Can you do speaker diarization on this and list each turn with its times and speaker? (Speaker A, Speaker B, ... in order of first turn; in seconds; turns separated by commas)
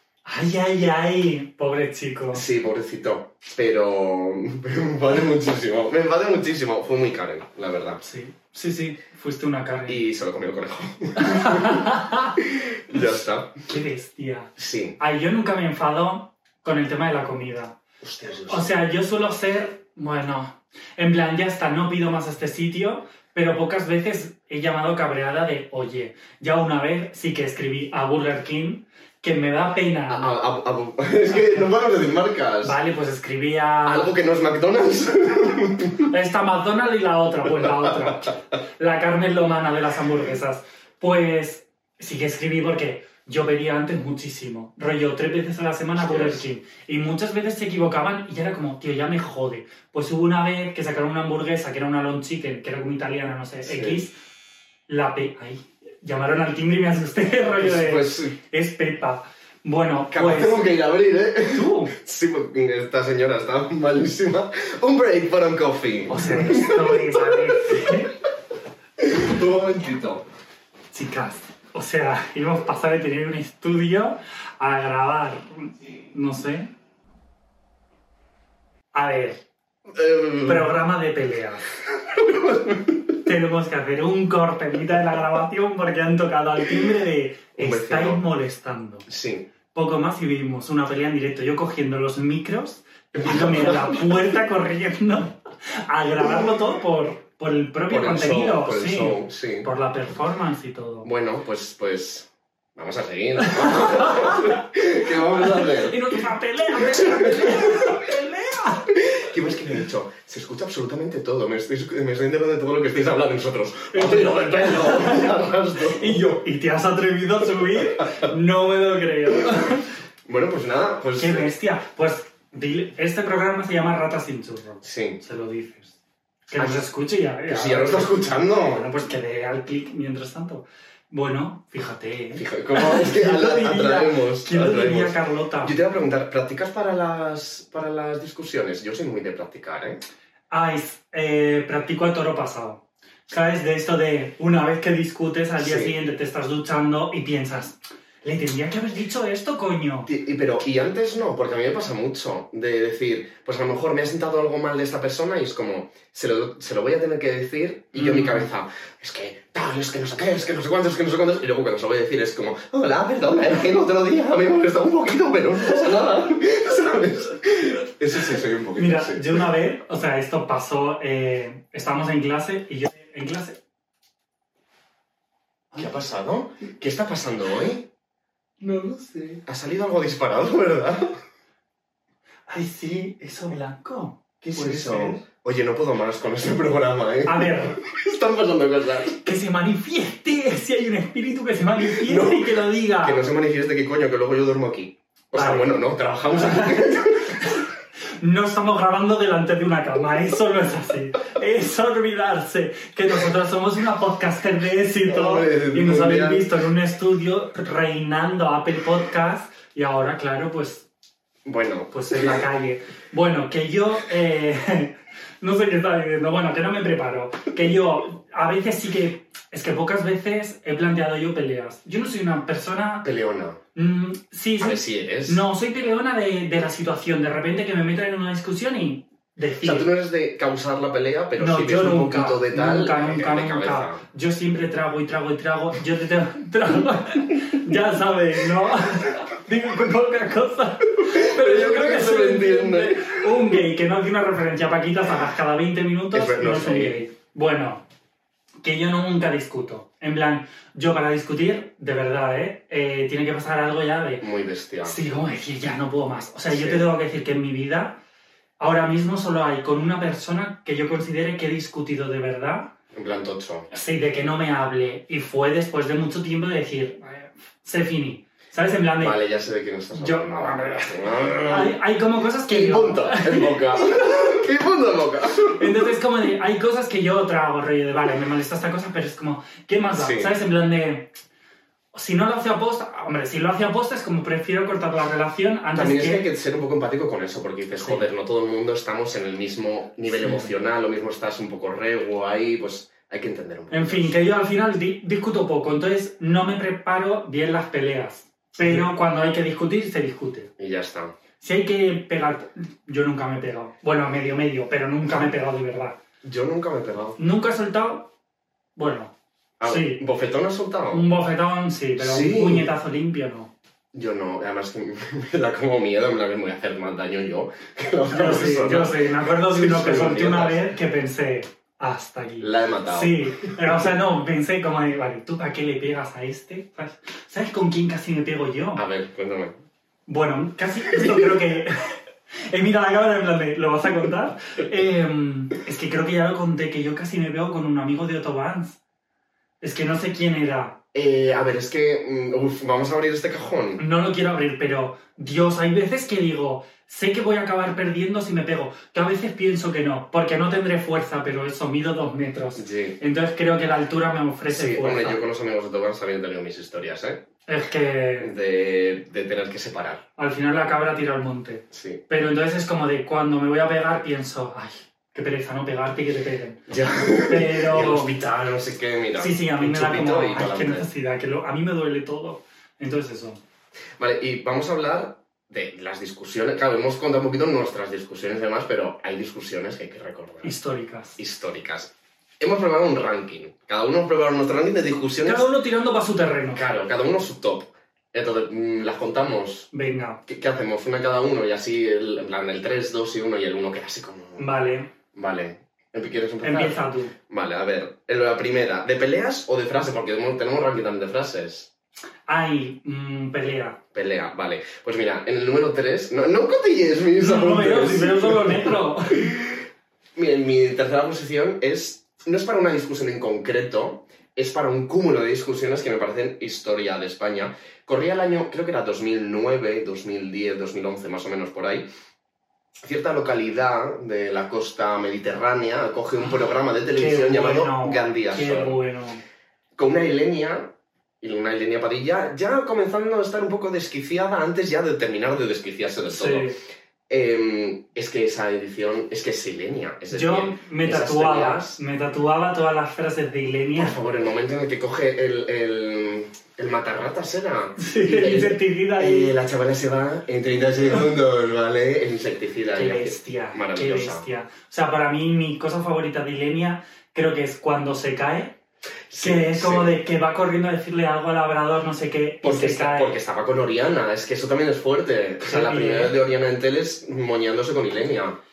Speaker A: 0.3-2.4, Speaker B: 2.3-8.0, Speaker A: 8.0-10.0, Speaker B: 9.9-11.9, Speaker A: 11.2-12.4, Speaker B: 12.4-13.6, Speaker A: 13.7-17.8, Speaker B: 14.6-15.0, Speaker B: 18.0-18.8, Speaker A: 18.5-30.3, Speaker B: 30.1-32.8, Speaker A: 31.3-31.7, Speaker A: 32.6-34.1, Speaker B: 33.9-36.1, Speaker A: 36.1-54.2, Speaker B: 46.0-46.4, Speaker B: 53.6-54.0, Speaker A: 54.9-60.7, Speaker B: 57.6-58.4, Speaker B: 60.1-68.1, Speaker A: 61.5-61.9, Speaker A: 66.1-68.1, Speaker B: 69.0-70.2, Speaker A: 70.9-76.7, Speaker A: 78.9-79.4, Speaker B: 79.9-80.7, Speaker A: 80.4-81.7, Speaker B: 82.0-83.2, Speaker A: 83.2-89.1, Speaker B: 87.6-88.2, Speaker B: 89.1-89.5, Speaker A: 89.7-101.1, Speaker B: 93.2-94.2, Speaker B: 97.9-99.7, Speaker B: 101.0-106.2, Speaker A: 103.6-104.6, Speaker A: 105.4-108.9, Speaker B: 106.8-108.0, Speaker B: 108.9-116.3, Speaker A: 113.9-119.9, Speaker B: 120.3-121.5, Speaker A: 121.2-125.9, Speaker B: 124.8-125.2, Speaker A: 126.5-135.8, Speaker B: 126.6-126.8, Speaker B: 127.5-128.9, Speaker B: 132.3-140.0, Speaker A: 140.5-150.1, Speaker B: 145.6-145.9, Speaker B: 150.1-169.4, Speaker A: 157.9-158.5, Speaker A: 168.8-173.6, Speaker B: 175.8-177.9, Speaker A: 178.6-179.4, Speaker B: 179.4-181.2, Speaker A: 182.5-185.2, Speaker B: 184.4-189.2, Speaker A: 187.2-187.8, Speaker A: 189.2-193.2, Speaker B: 191.9-197.4, Speaker A: 195.3-195.8, Speaker A: 196.3-197.6, Speaker A: 198.2-210.9, Speaker B: 205.1-206.5, Speaker B: 211.4-212.4, Speaker A: 211.9-223.1, Speaker B: 223.0-223.6, Speaker A: 223.8-229.9, Speaker B: 224.6-225.4, Speaker B: 229.6-234.0, Speaker A: 231.4-247.8, Speaker B: 241.0-243.3, Speaker B: 246.1-247.0, Speaker A: 248.6-254.3, Speaker B: 254.2-255.0, Speaker A: 254.8-258.0, Speaker B: 256.5-256.9, Speaker A: 258.6-262.7, Speaker B: 262.9-263.7, Speaker A: 263.7-269.2, Speaker B: 269.0-271.8, Speaker A: 269.9-274.2, Speaker B: 272.5-275.8, Speaker A: 275.6-281.1, Speaker B: 279.9-280.3, Speaker A: 281.9-286.2, Speaker B: 285.7-294.3, Speaker A: 287.8-288.1, Speaker A: 290.1-290.5, Speaker A: 293.7-300.5, Speaker B: 300.6-301.1, Speaker A: 301.4-306.0, Speaker B: 306.2-307.2, Speaker A: 307.2-308.1, Speaker A: 308.8-309.1, Speaker B: 309.6-311.1, Speaker A: 309.6-310.0, Speaker A: 310.9-313.5, Speaker B: 312.0-312.7, Speaker B: 313.9-320.7, Speaker A: 318.1-328.8, Speaker B: 322.4-323.3, Speaker B: 328.8-329.6, Speaker A: 330.1-332.0, Speaker B: 330.9-331.4, Speaker A: 332.5-338.8, Speaker A: 339.6-340.8, Speaker B: 340.9-343.8, Speaker A: 343.8-355.2, Speaker B: 352.6-353.0, Speaker B: 354.5-357.2, Speaker A: 357.5-358.3, Speaker B: 358.2-360.0, Speaker A: 360.2-366.7, Speaker B: 361.7-362.0, Speaker B: 366.7-370.9, Speaker A: 367.2-368.1, Speaker A: 369.2-373.4, Speaker B: 374.0-380.5, Speaker A: 380.4-381.2, Speaker B: 381.2-385.5, Speaker A: 385.2-386.6, Speaker B: 386.5-389.7, Speaker A: 389.7-390.2, Speaker B: 390.3-394.5, Speaker A: 394.4-394.9, Speaker B: 395.1-401.7, Speaker A: 396.4-397.1, Speaker A: 402.3-403.8, Speaker B: 403.9-409.6, Speaker A: 407.2-409.4, Speaker B: 410.2-421.9, Speaker B: 422.8-428.8, Speaker A: 426.9-429.2, Speaker B: 429.8-436.5, Speaker A: 436.1-436.6, Speaker B: 437.1-441.8, Speaker A: 440.1-444.0, Speaker B: 443.8-454.3, Speaker A: 447.8-449.3, Speaker A: 452.8-458.6, Speaker B: 459.1-460.0, Speaker A: 459.2-463.2, Speaker B: 462.4-468.4, Speaker A: 465.4-466.1